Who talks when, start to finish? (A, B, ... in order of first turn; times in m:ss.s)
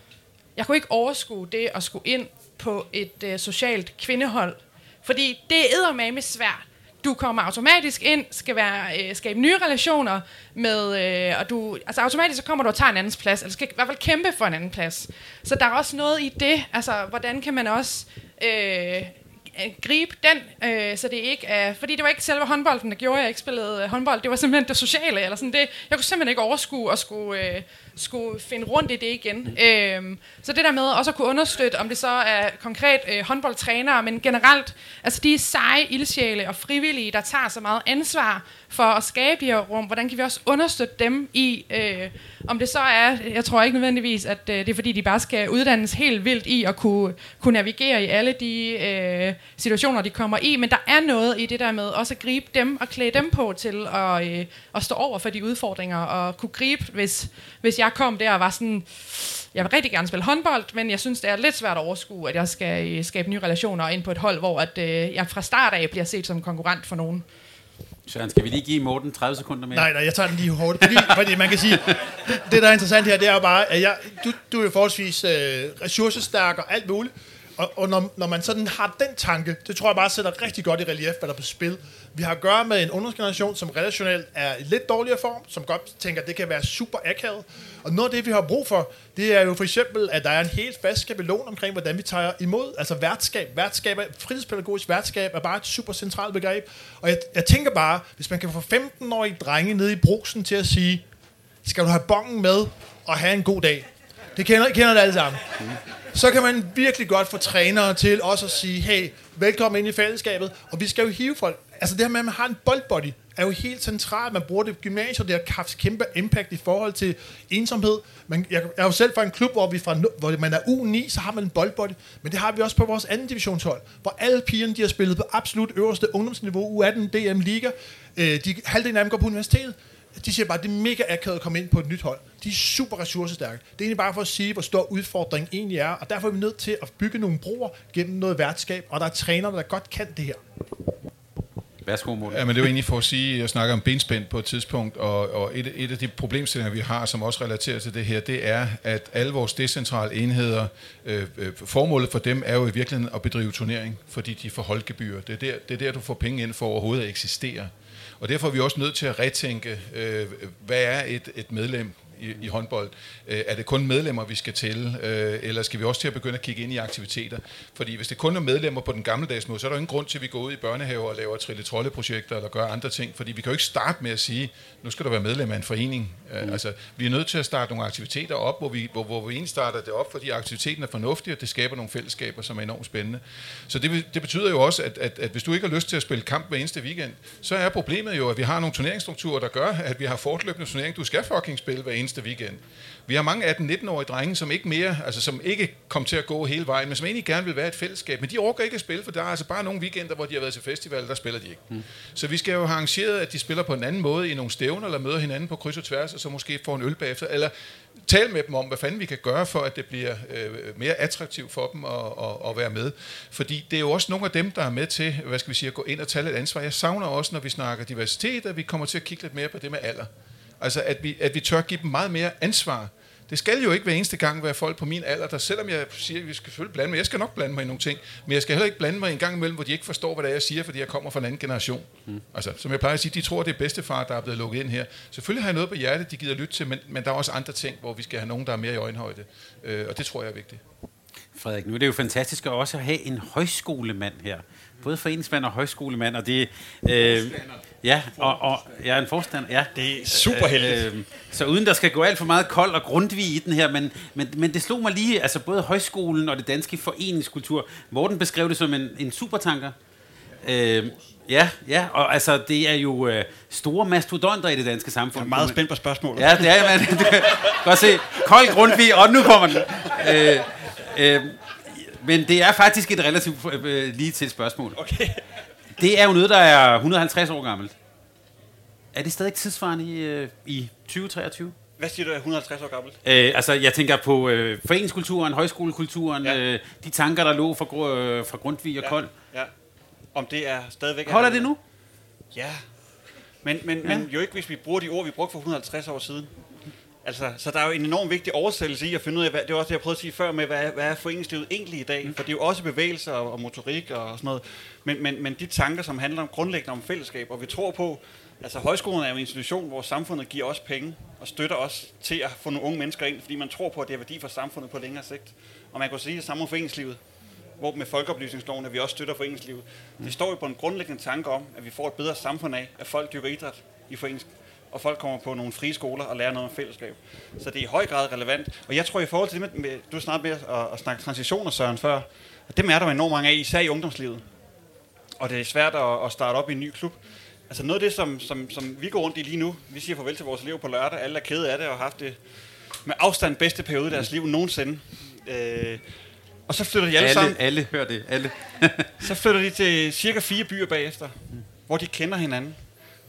0:00.6-1:07.2 A
1:08.1-1:09.9 B
1:09.7-1:41.0 C
1:10.8-1:11.2 B
1:41.6-2:20.4 C
2:21.8-2:22.6 B
2:22.3-3:27.5 D
3:28.0-4:00.6 D
4:01.3-4:19.7 B
4:09.7-4:10.9 E
4:20.4-4:25.6 B
4:25.1-4:27.6 E
4:26.2-4:34.8 B
4:34.8-4:35.2 E
4:35.8-4:37.7 B
4:38.9-4:41.5 B
4:41.8-4:43.0 E
4:43.0-4:49.1 B
4:48.8-4:49.5 E
4:50.1-4:51.5 E
4:51.1-4:51.6 B
4:52.3-4:52.6 E
4:53.4-4:56.3 E
4:57.0-5:17.0 E
5:17.6-5:34.2 E
5:35.2-5:42.2 E
5:42.8-5:45.8 E
5:46.5-5:47.4 E
5:47.0-5:49.1 B
5:49.0-5:52.6 E